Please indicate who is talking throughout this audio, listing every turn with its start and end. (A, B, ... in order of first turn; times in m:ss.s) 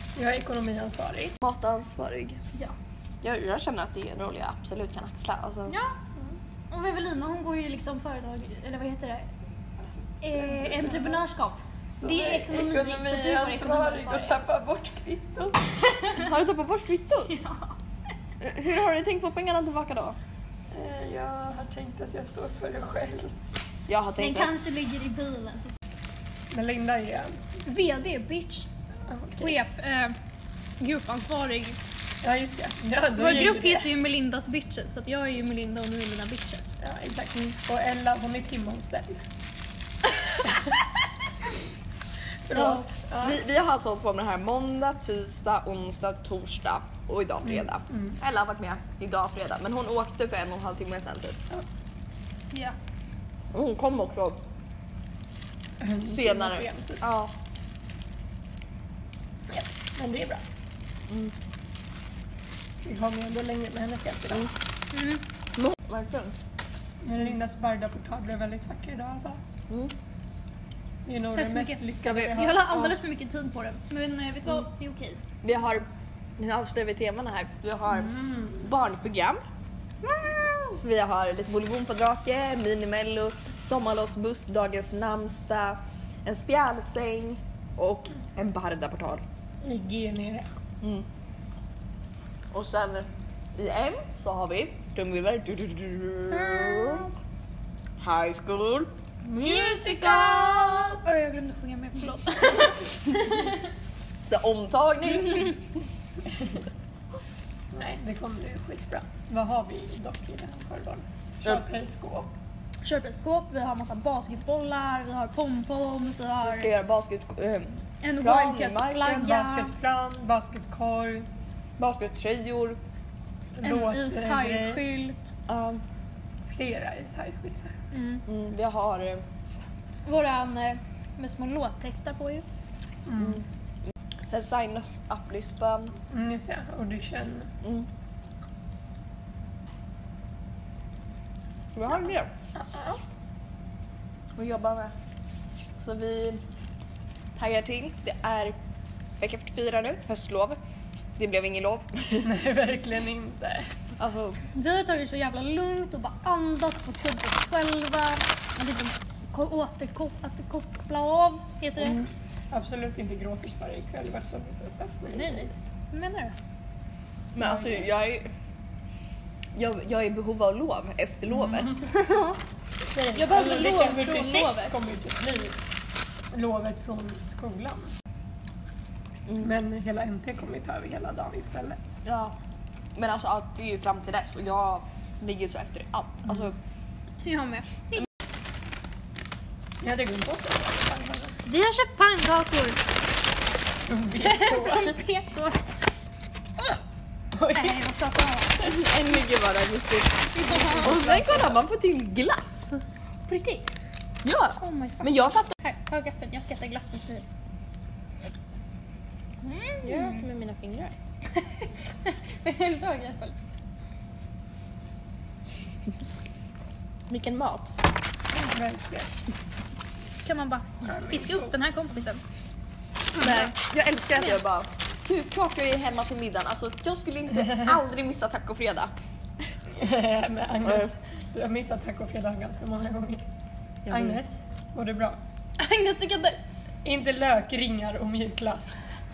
0:00.2-0:01.4 A
0:01.4-0:02.4 B
0:03.2-0:05.7 B
0:05.7-0:06.0 C
0:06.7-0:09.3 C
0:10.2-0:14.4 C
0:10.3-0:11.2 A
0:12.0-0:15.7 A
0:15.8-0:16.3 C
0:16.3-0:17.3 B
0:17.2-0:17.7 C
0:18.4-0:20.2 B
0:20.7-0:23.3 A
0:23.9-0:24.5 B
0:24.2-0:25.7 C
0:26.5-0:27.4 A
0:27.6-0:28.7 C
0:29.1-0:29.6 A
0:29.4-0:30.1 C
0:30.8-0:31.8 C
0:32.2-0:33.9 A
0:33.1-0:36.7 C
0:36.8-0:39.2 A
0:42.5-0:43.4 A
0:42.6-0:51.4 B
0:47.4-0:48.2 A
0:53.5-0:54.4 B
0:55.8-0:57.0 A
0:56.0-0:57.3 B
0:59.5-1:00.4 A
1:01.1-1:01.3 B
1:02.8-1:04.5 A
1:04.9-1:05.2 C
1:05.6-1:06.4 B
1:07.0-1:09.4 A
1:11.0-1:12.8 A
1:11.3-1:15.2 C
1:12.0-1:12.9 B
1:15.4-1:15.8 B
1:16.4-1:18.1 B
1:17.9-1:18.7 A
1:18.6-1:19.4 B
1:20.1-1:29.2 B
1:29.6-1:30.5 A
1:32.5-1:37.0 B
1:36.3-1:37.1 C
1:38.0-1:38.9 B
1:39.2-1:40.3 A
1:39.5-1:43.6 C
1:39.7-1:41.0 B
1:44.2-1:45.7 B
1:47.7-1:52.4 A
1:52.8-1:56.7 C
1:56.4-1:59.1 B
1:58.0-1:59.7 C
1:59.0-2:01.3 A
2:01.8-2:02.8 B
2:03.6-2:04.8 A
2:03.6-2:05.3 C
2:05.5-2:05.8 B
2:06.5-2:07.7 A
2:07.9-2:08.2 C
2:08.3-2:09.2 B
2:10.0-2:12.4 C
2:13.0-2:13.4 A
2:14.3-2:16.0 B
2:16.1-2:17.5 A
2:17.6-2:17.9 B
2:21.7-2:22.3 B
2:22.6-2:23.0 A
2:24.4-2:24.9 B
2:25.8-2:26.4 B
2:27.3-2:28.6 B
2:29.2-2:30.6 B
2:31.2-2:32.3 B
2:32.2-2:33.6 A
2:34.0-2:34.4 B
2:34.5-2:42.0 C
2:41.8-2:45.5 A
2:45.1-2:46.3 C
2:47.3-2:48.2 B
2:47.4-2:47.8 A
2:49.6-2:51.8 B
2:51.9-2:52.4 C
2:52.9-2:55.6 A
2:53.1-2:54.8 C
2:56.3-2:57.9 A
2:59.4-3:01.8 A
3:02.0-3:02.3 B
3:02.9-3:06.6 B
3:07.2-3:08.0 C
3:09.8-3:11.4 A
3:11.4-3:12.8 C
3:13.9-3:15.0 A
3:14.2-3:15.6 C
3:17.3-3:17.8 A
3:17.5-3:18.7 C
3:18.6-3:22.8 B
3:20.3-3:21.0 C
3:20.5-3:21.6 A
3:23.3-3:23.7 C
3:24.2-3:25.5 B
3:24.6-3:27.2 C
3:29.4-3:30.2 C
3:29.8-3:31.0 B
3:31.4-3:33.4 C
3:37.1-3:37.7 B
3:38.3-3:39.1 A
3:40.2-3:42.2 C
3:40.8-3:41.5 A
3:43.2-3:43.5 C
3:43.2-3:48.9 B
3:44.1-3:44.4 C
3:49.7-3:53.2 A
3:53.8-3:54.2 B
3:53.9-3:55.2 A
3:55.6-3:56.4 C
3:56.8-3:58.8 A